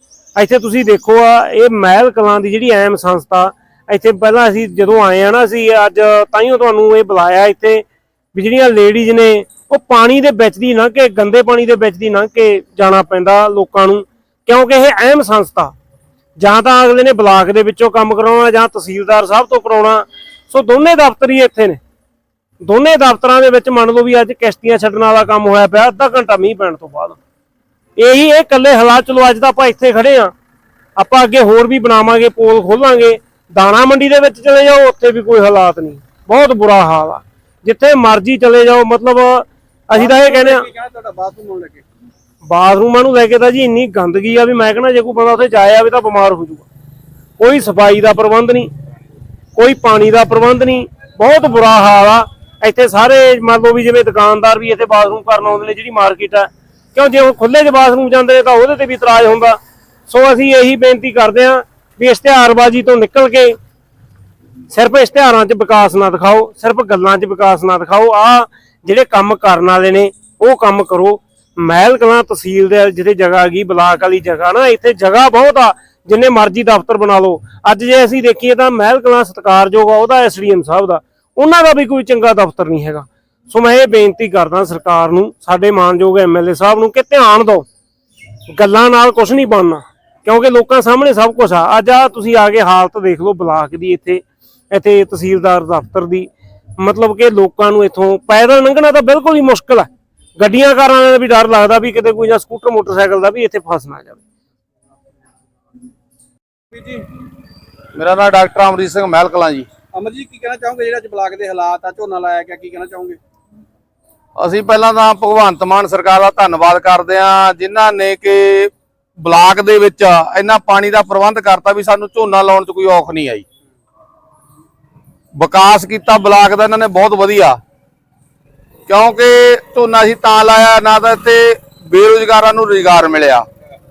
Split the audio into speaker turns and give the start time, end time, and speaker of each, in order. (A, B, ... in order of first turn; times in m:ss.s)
0:00.3-0:15.7 A
0:16.4-0:21.8 A
0:22.6-0:27.2 A
0:28.0-0:30.3 A
0:31.0-0:40.6 A
0:39.9-0:41.8 B
0:42.4-0:46.6 A
0:47.4-0:48.7 A
0:49.5-1:03.6 A
1:04.7-1:27.6 A
1:28.5-1:44.2 A
1:46.7-1:47.0 B
1:47.9-1:49.7 C
1:49.9-1:53.2 B
1:54.4-2:03.4 C
2:05.4-2:07.6 C
2:08.9-2:13.4 C